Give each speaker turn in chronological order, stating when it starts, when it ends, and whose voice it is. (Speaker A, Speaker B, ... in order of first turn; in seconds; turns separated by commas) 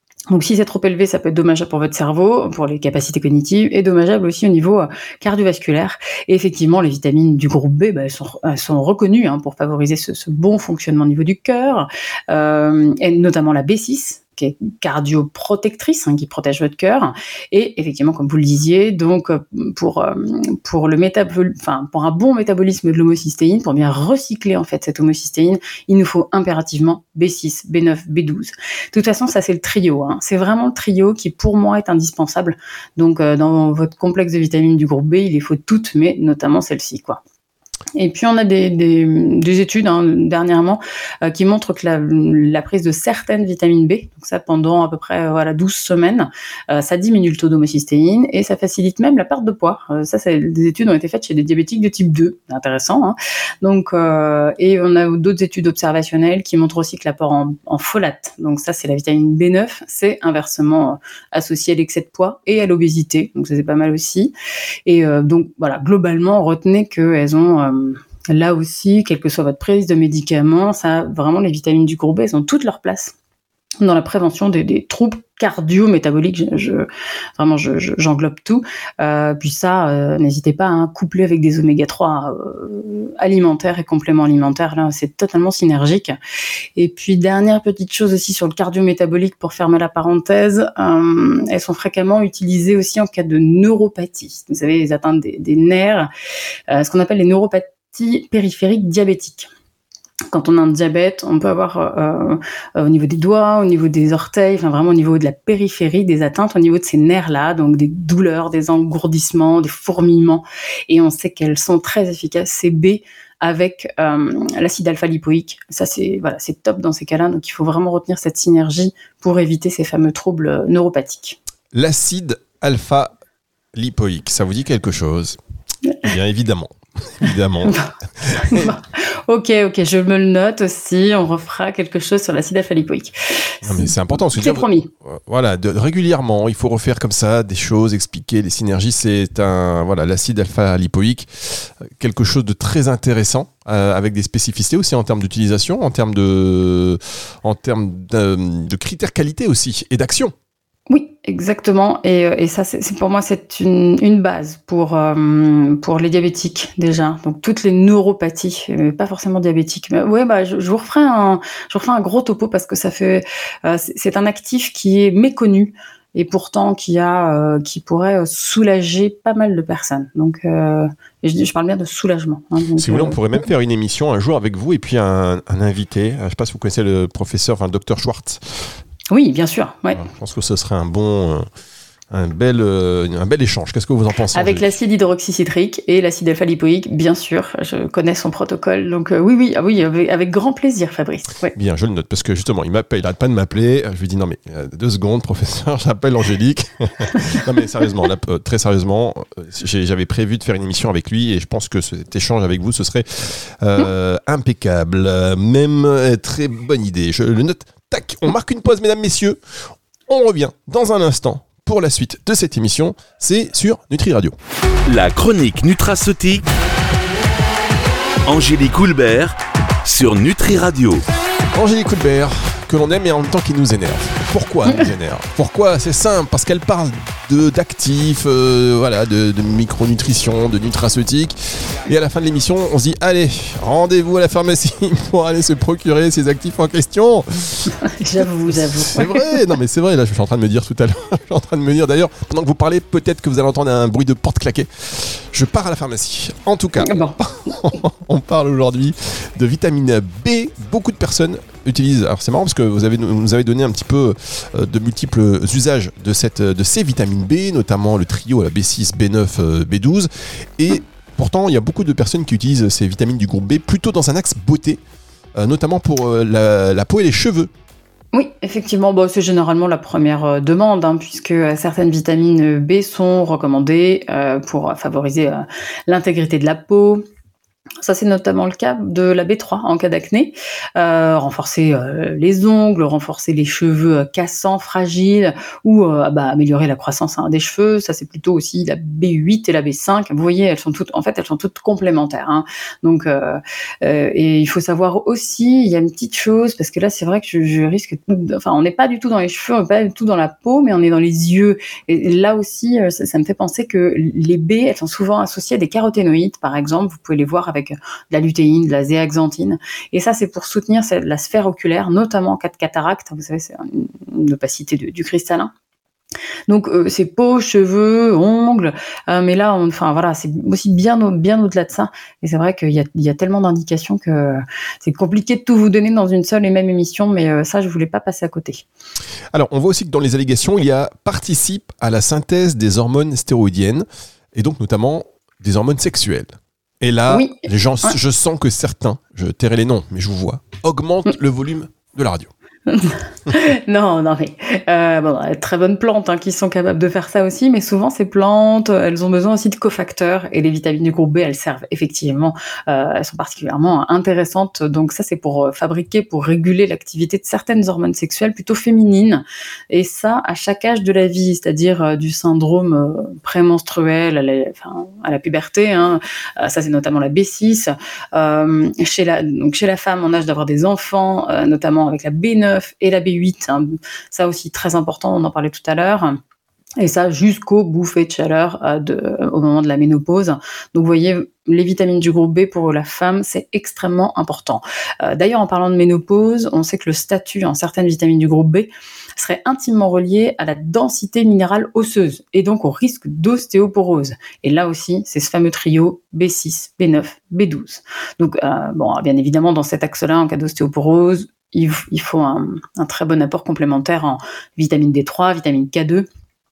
Speaker A: 0.3-37.2, Speaker A: 38.0-64.3, Speaker A: 64.8-73.1, Speaker A: 73.8-86.2, Speaker A: 86.8-96.1, Speaker A: 96.7-99.5, Speaker A: 100.3-121.4, Speaker B: 121.7-123.1, Speaker B: 123.7-125.4, Speaker B: 126.0-128.7, Speaker A: 127.6-134.9, Speaker B: 133.6-150.3, Speaker A: 150.9-173.2, Speaker B: 172.8-178.7, Speaker A: 179.1-180.0, Speaker B: 179.9-181.5, Speaker B: 182.1-184.7, Speaker A: 184.3-191.5, Speaker B: 191.5-209.4, Speaker B: 210.1-214.3, Speaker C: 214.9-216.5, Speaker C: 218.3-221.0, Speaker B: 221.5-237.8, Speaker A: 237.9-239.3, Speaker B: 238.5-264.8, Speaker A: 246.8-247.2, Speaker B: 265.4-267.5, Speaker A: 268.1-277.0, Speaker A: 277.8-315.5, Speaker A: 316.5-328.6, Speaker B: 329.3-342.3, Speaker A: 337.1-338.0, Speaker A: 342.7-376.2, Speaker A: 376.8-406.1